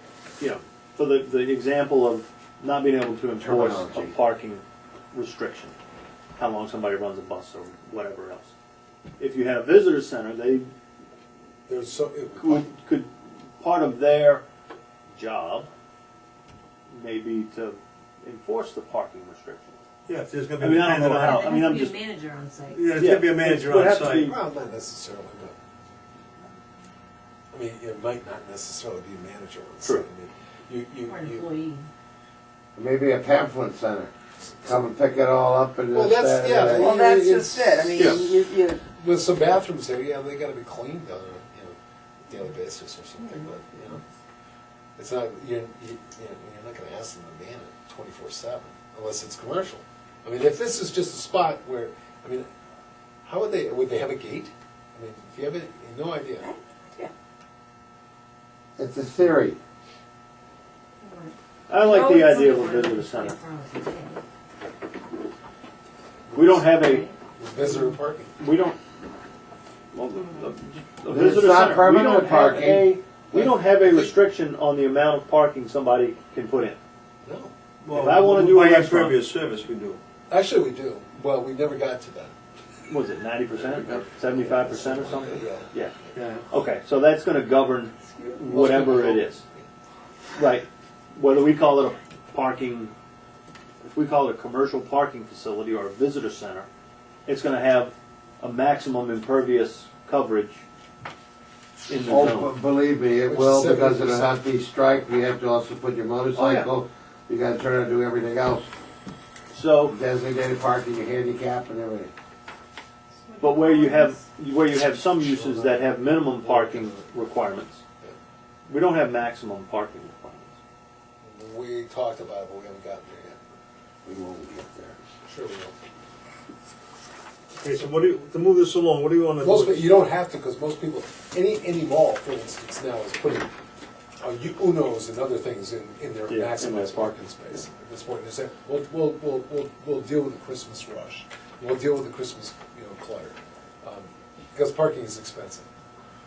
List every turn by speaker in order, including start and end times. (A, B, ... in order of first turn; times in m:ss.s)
0:00.4-0:05.7 A
0:03.4-0:04.1 B
0:06.4-0:08.5 A
0:09.2-0:10.7 A
0:11.7-0:12.7 C
0:12.4-0:14.4 A
0:15.1-0:15.7 A
0:16.9-0:19.8 A
0:20.1-0:21.5 D
0:20.6-0:22.0 A
0:21.2-0:22.8 E
0:22.7-0:24.3 D
0:22.9-0:24.4 A
0:24.1-0:25.6 C
0:27.5-0:31.5 C
0:31.0-0:31.9 E
0:32.8-0:36.9 B
0:35.9-0:44.0 C
0:36.8-0:38.8 F
0:38.0-0:38.2 A
0:45.0-0:52.4 C
0:53.2-0:56.4 C
0:56.4-0:57.1 F
0:58.8-0:59.6 B
1:01.0-1:01.3 E
1:01.7-1:03.4 A
1:01.8-1:04.2 E
1:06.3-1:06.8 C
1:06.3-1:07.0 A
1:06.7-1:07.2 E
1:07.4-1:08.3 C
1:08.4-1:08.8 A
1:09.9-1:16.8 A
1:11.1-1:13.0 B
1:13.3-1:14.1 C
1:17.2-1:17.5 C
1:17.8-1:20.0 D
1:17.9-1:19.2 A
1:20.3-1:22.3 C
1:22.9-1:25.9 A
1:24.3-1:26.1 C
1:26.1-1:26.4 D
1:26.5-1:29.4 A
1:28.2-1:28.4 F
1:28.4-1:29.7 C
1:30.4-1:32.9 A
1:33.8-1:36.7 A
1:37.3-1:40.6 A
1:41.9-1:42.5 A
1:42.0-1:48.7 B
1:43.2-1:44.3 C
1:46.3-1:46.7 A
1:49.5-1:50.0 A
1:49.9-1:52.1 B
1:53.2-1:54.2 E
1:53.4-1:57.8 A
1:55.2-1:55.8 C
1:56.4-1:56.9 C
1:58.7-2:00.6 A
2:01.2-2:03.4 C
2:04.0-2:05.0 B
2:05.2-2:05.7 C
2:07.6-2:10.0 D
2:09.4-2:13.5 C
2:14.2-2:25.7 C
2:16.3-2:17.2 A